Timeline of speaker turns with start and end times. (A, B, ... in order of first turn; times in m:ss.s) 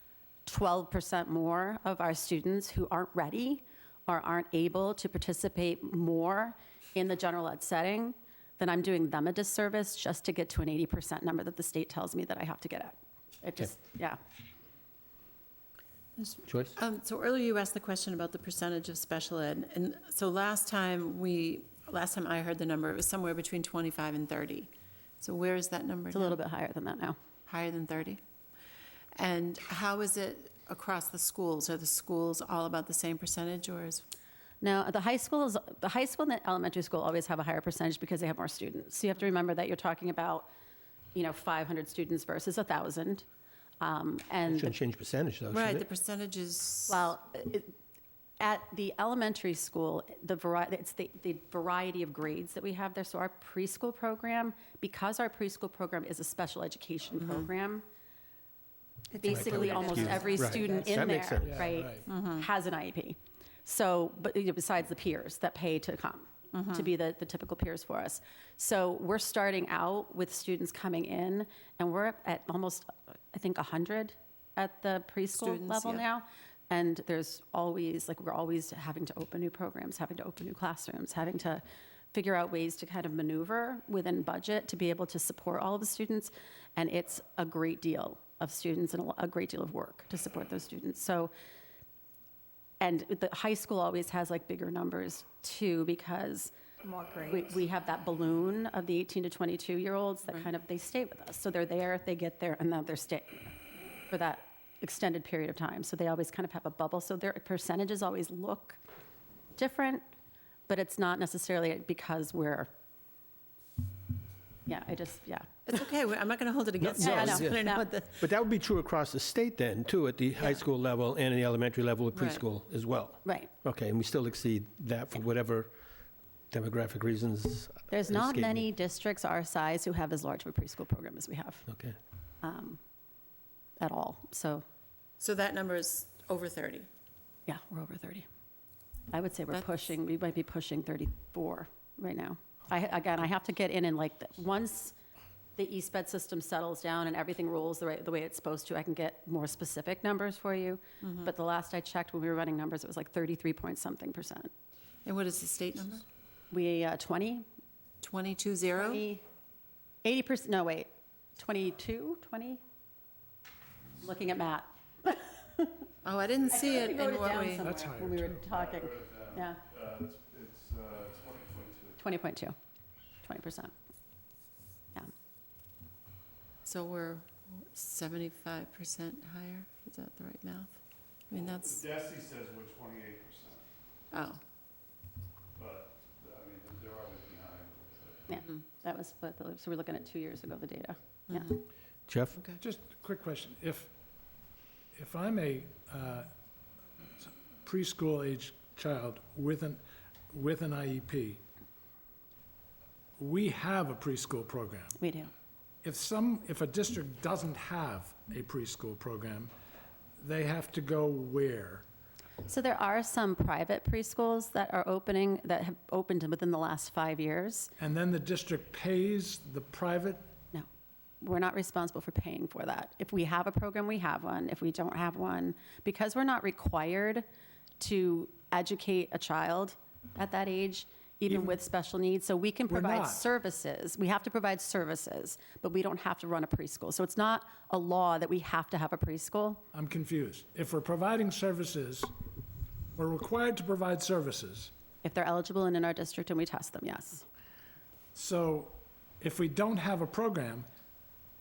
0:00.5-0:14.2 A
0:16.2-0:26.4 B
0:16.5-0:16.8 C
0:26.1-0:27.2 A
0:27.5-0:28.2 B
0:29.2-0:34.0 B
0:34.6-0:40.5 A
0:41.2-0:43.3 A
0:43.8-0:44.7 A
0:44.5-0:45.9 C
0:45.5-0:47.1 B
0:46.9-0:47.8 A
0:48.4-0:57.8 A
0:57.2-0:57.5 B
0:59.1-1:00.9 D
0:59.2-1:31.3 A
0:59.3-1:01.7 C
1:01.5-1:02.0 E
1:02.1-1:02.5 B
1:06.5-1:06.9 B
1:15.3-1:16.0 B
1:32.8-1:36.5 A
1:36.8-1:37.4 D
1:37.1-1:43.5 A
1:44.1-1:48.8 A
1:49.6-1:50.0 A
1:50.7-1:52.7 A
1:54.7-1:55.7 A
1:55.7-1:58.2 B
1:56.8-1:57.6 C
1:57.0-1:57.8 A
1:58.2-2:05.7 C
2:02.1-2:02.4 B
2:03.2-2:03.5 A
2:06.5-2:08.7 C
2:07.9-2:11.7 A
2:11.7-2:12.0 C
2:12.4-2:12.8 A
2:13.8-2:14.6 A
2:15.2-2:16.9 B
2:17.5-2:18.3 A
2:19.1-2:25.0 A
2:25.6-2:34.5 A
2:31.0-2:31.3 B
2:35.0-2:36.0 B
2:36.5-2:37.4 A
2:38.0-2:39.0 B
2:38.8-2:39.2 A
2:40.0-2:42.6 A
2:44.0-2:45.8 A
2:46.0-2:47.7 B
2:46.5-2:49.6 A
2:47.6-2:48.5 E
2:48.5-2:52.0 F
2:52.0-2:52.6 A
2:53.2-2:53.7 A
2:56.6-3:00.8 B
3:01.3-3:01.8 B
3:01.4-3:03.6 F
3:04.1-3:04.4 B
3:05.6-3:08.3 F
3:08.3-3:11.6 A
3:11.3-3:11.6 B
3:12.1-3:12.4 C
3:12.6-3:13.9 E
3:15.0-3:16.3 E
3:17.2-3:21.4 E
3:23.2-3:25.0 E
3:25.0-3:25.3 A
3:25.8-3:29.5 E
3:30.2-3:31.8 E
3:32.5-3:37.7 A
3:37.8-3:40.3 E
3:41.2-3:47.2 A
3:47.8-3:59.6 A
3:52.7-3:53.3 E
3:59.7-4:02.1 E
4:03.0-4:04.7 E
4:05.0-4:07.2 A
4:08.2-4:10.7 E